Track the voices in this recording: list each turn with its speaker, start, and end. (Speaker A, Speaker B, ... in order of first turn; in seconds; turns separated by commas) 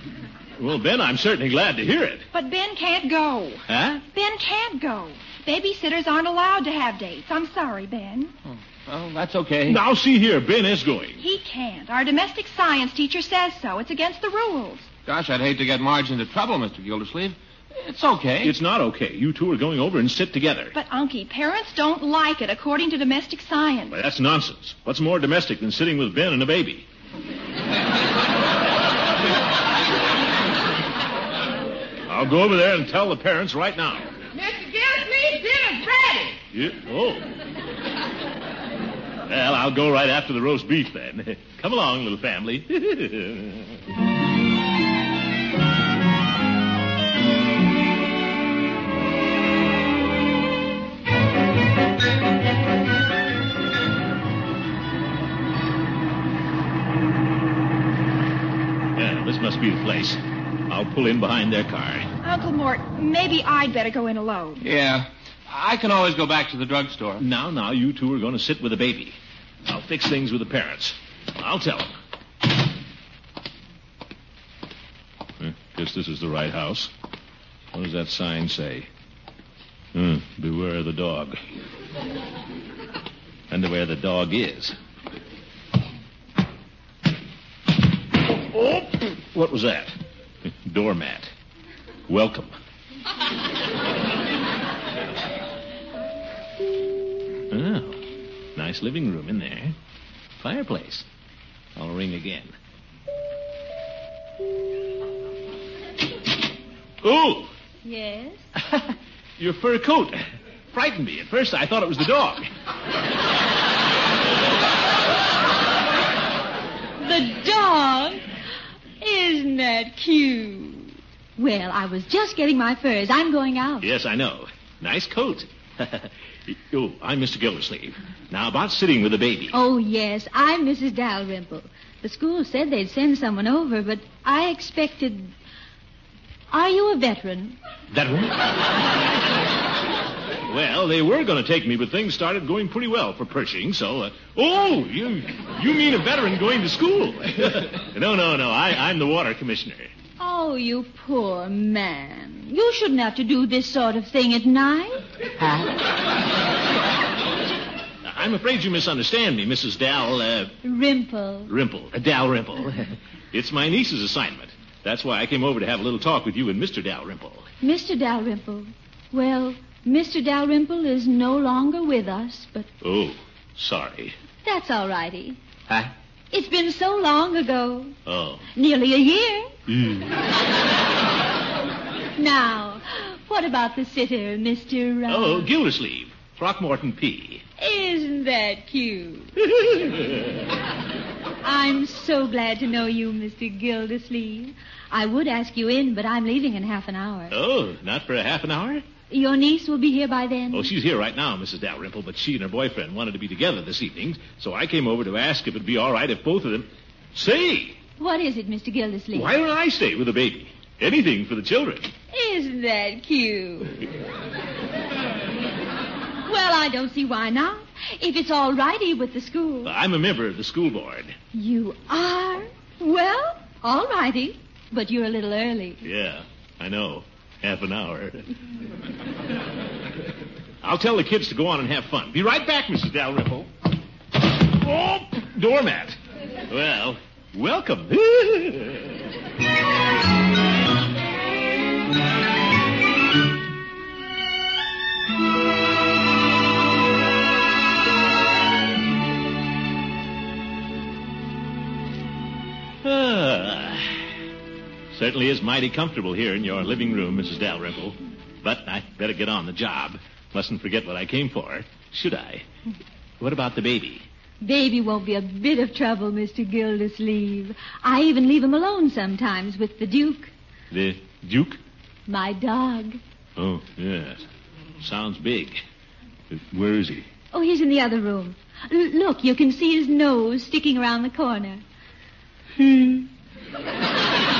Speaker A: 0.6-2.3, Speaker B: 2.3-8.3, Speaker A: 3.7-4.0, Speaker C: 8.9-9.8, Speaker A: 9.7-11.2, Speaker B: 11.2-14.9, Speaker C: 15.1-18.5, Speaker A: 18.4-20.7, Speaker B: 20.7-24.0, Speaker A: 23.9-26.9, Speaker A: 32.1-34.1, Speaker D: 34.4-36.3, Speaker A: 36.5-37.2, Speaker A: 39.3-43.7, Speaker A: 59.0-62.1, Speaker B: 62.2-64.6, Speaker C: 64.6-67.2, Speaker A: 67.2-69.2, Speaker A: 69.7-71.9, Speaker A: 75.4-76.9, Speaker A: 77.7-78.9, Speaker A: 79.9-81.4, Speaker A: 83.5-84.8, Speaker A: 88.5-91.3, Speaker A: 92.1-92.5, Speaker A: 97.5-98.0, Speaker A: 98.6-99.8, Speaker A: 100.4-101.0, Speaker A: 101.8-102.5, Speaker A: 107.0-107.5, Speaker E: 107.8-108.5, Speaker A: 108.6-110.2, Speaker A: 110.7-112.5, Speaker E: 117.0-118.2, Speaker E: 119.0-123.9, Speaker A: 123.8-129.5, Speaker E: 129.5-135.3, Speaker E: 136.5-137.6, Speaker A: 137.9-138.4, Speaker A: 140.5-149.9, Speaker E: 150.2-155.0, Speaker A: 158.1-160.6, Speaker E: 160.6-161.5, Speaker A: 161.5-167.5, Speaker E: 167.6-172.7, Speaker A: 172.8-174.2, Speaker E: 174.4-175.4, Speaker E: 176.3-177.9, Speaker A: 178.1-178.5, Speaker E: 178.6-179.5, Speaker A: 179.7-180.1, Speaker E: 182.2-185.5, Speaker A: 185.1-187.4, Speaker E: 187.6-189.3, Speaker A: 189.5-190.3, Speaker E: 191.4-197.3, Speaker A: 197.3-198.8, Speaker E: 199.1-200.7, Speaker A: 200.5-207.8, Speaker E: 208.0-209.3, Speaker A: 209.1-211.9, Speaker E: 212.1-213.8, Speaker E: 216.3-219.7, Speaker A: 219.7-221.2, Speaker E: 221.3-225.8, Speaker A: 225.8-228.3, Speaker A: 230.6-233.5, Speaker A: 234.5-238.9, Speaker A: 252.8-254.0, Speaker A: 254.9-262.4, Speaker A: 263.2-264.1, Speaker E: 264.4-270.3, Speaker A: 270.7-271.6, Speaker E: 272.1-273.0, Speaker A: 273.4-274.3, Speaker A: 274.8-275.6, Speaker A: 276.3-277.1, Speaker E: 277.3-281.6, Speaker E: 282.6-283.1